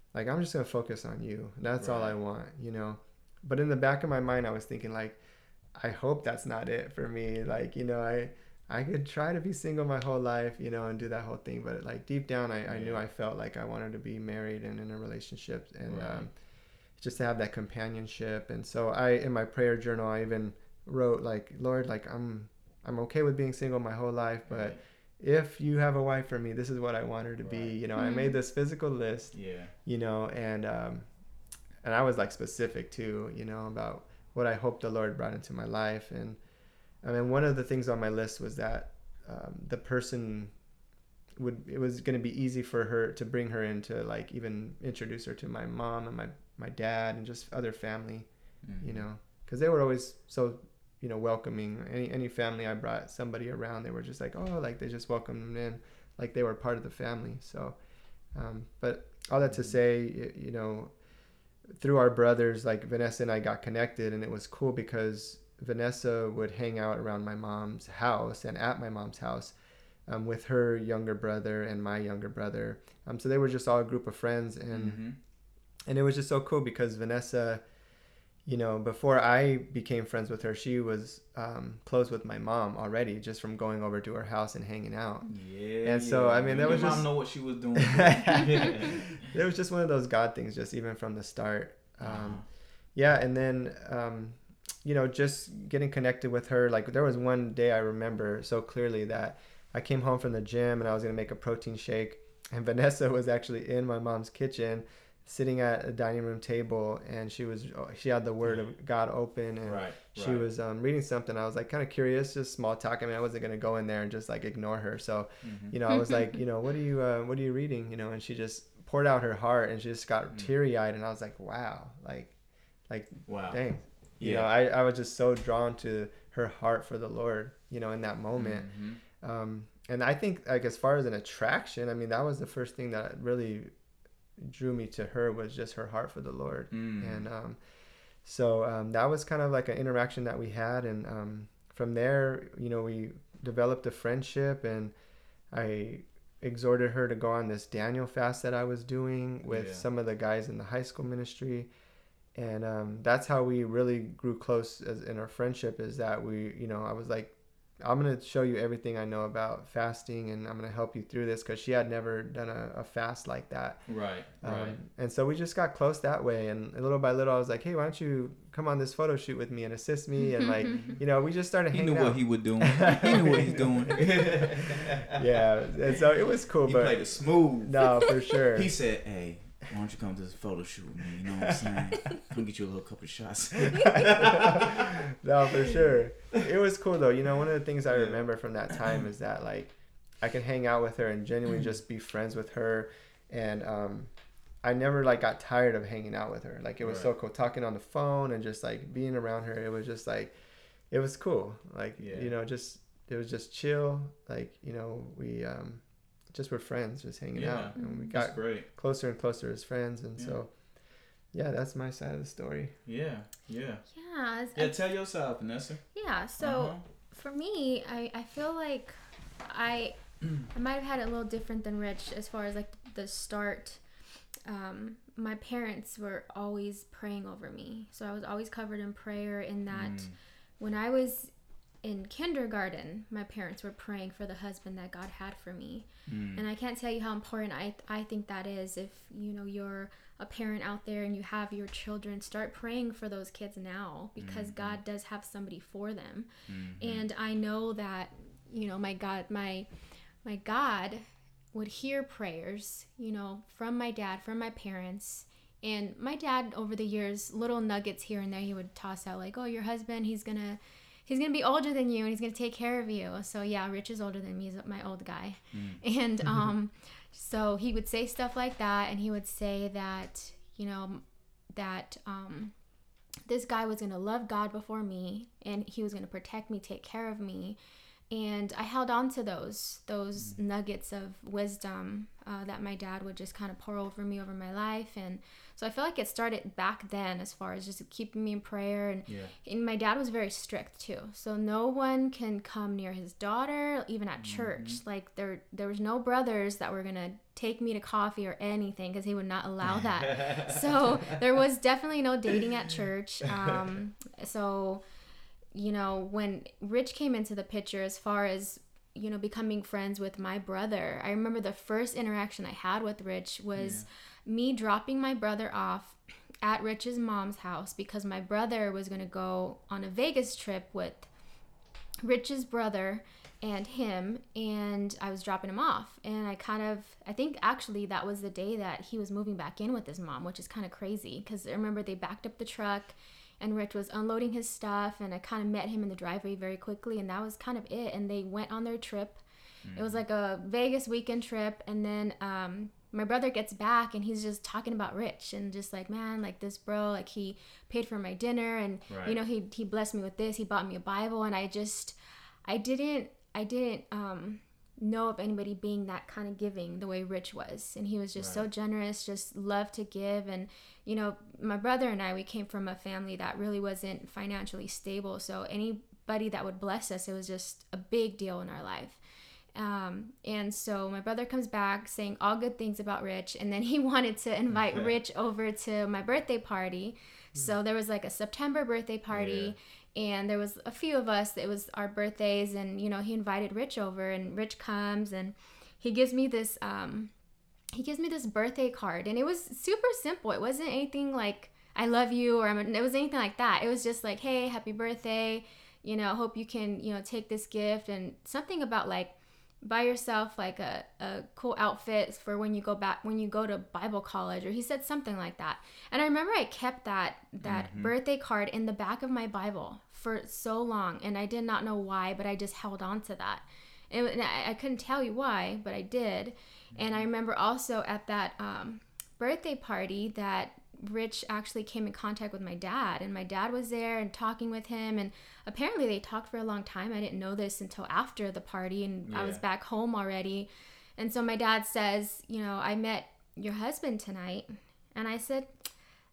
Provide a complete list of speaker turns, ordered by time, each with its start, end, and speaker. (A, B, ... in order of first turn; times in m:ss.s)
0:00.1-0:05.2 A
0:01.8-0:02.2 B
0:05.8-0:16.3 A
0:12.7-0:13.0 B
0:15.9-0:16.3 B
0:17.0-0:31.1 A
0:24.5-0:24.8 B
0:27.4-0:27.8 B
0:28.0-0:28.4 C
0:29.3-0:29.7 B
0:31.8-0:36.4 A
0:37.0-0:40.5 A
0:41.4-0:48.3 A
0:48.6-0:49.0 B
0:48.8-0:57.8 A
0:58.3-1:00.9 A
0:59.5-0:59.8 B
1:01.8-1:09.6 A
1:10.1-1:15.0 A
1:14.7-1:15.2 B
1:15.9-1:17.6 A
1:18.4-1:27.1 A
1:25.3-1:29.2 B
1:27.8-1:32.4 A
1:32.0-1:32.4 B
1:32.9-2:02.3 A
1:49.7-1:50.4 B
1:55.4-1:55.8 B
2:02.9-2:13.7 A
2:03.3-2:03.6 B
2:04.2-2:04.5 B
2:08.4-2:09.0 B
2:14.4-2:17.6 A
2:16.7-2:17.3 B
2:18.2-2:24.9 A
2:25.5-2:31.7 A
2:29.4-2:29.8 B
2:32.3-2:53.9 A
2:43.9-2:44.8 B
2:50.3-2:50.7 C
2:50.6-2:51.0 B
2:51.7-2:55.2 B
2:55.1-2:57.1 A
2:56.6-3:05.0 B
2:57.6-2:58.7 A
3:01.5-3:01.8 A
3:03.6-3:14.1 A
3:07.9-3:08.2 B
3:14.6-3:20.3 A
3:16.8-3:17.1 B
3:20.9-3:30.5 A
3:22.0-3:22.3 B
3:27.3-3:28.7 B
3:27.8-3:28.1 C
3:31.3-3:32.7 A
3:32.9-3:33.8 B
3:33.9-3:34.8 C
3:34.5-3:35.8 B
3:35.9-3:43.8 C
3:36.4-3:36.8 B
3:44.4-3:51.3 C
3:49.7-3:50.2 B
3:51.8-4:06.3 C
3:56.1-3:56.4 B
4:04.2-4:04.8 B
4:06.5-4:07.1 B
4:06.8-4:09.7 C
4:10.2-4:32.5 C
4:25.5-4:25.8 B
4:33.3-4:37.6 C
4:38.1-5:04.8 C
4:49.1-4:49.3 B
4:54.2-4:54.8 B
5:00.0-5:01.2 B
5:05.5-5:21.1 C
5:13.6-5:13.9 B
5:22.0-5:39.2 C
5:39.6-5:40.0 B
5:39.8-6:09.0 C
5:48.9-5:49.2 B
5:58.2-5:58.4 B
6:09.6-6:27.1 C
6:19.1-6:19.5 B
6:27.7-7:15.5 C
6:47.4-6:47.9 B
6:56.8-6:57.0 B
7:09.1-7:09.4 B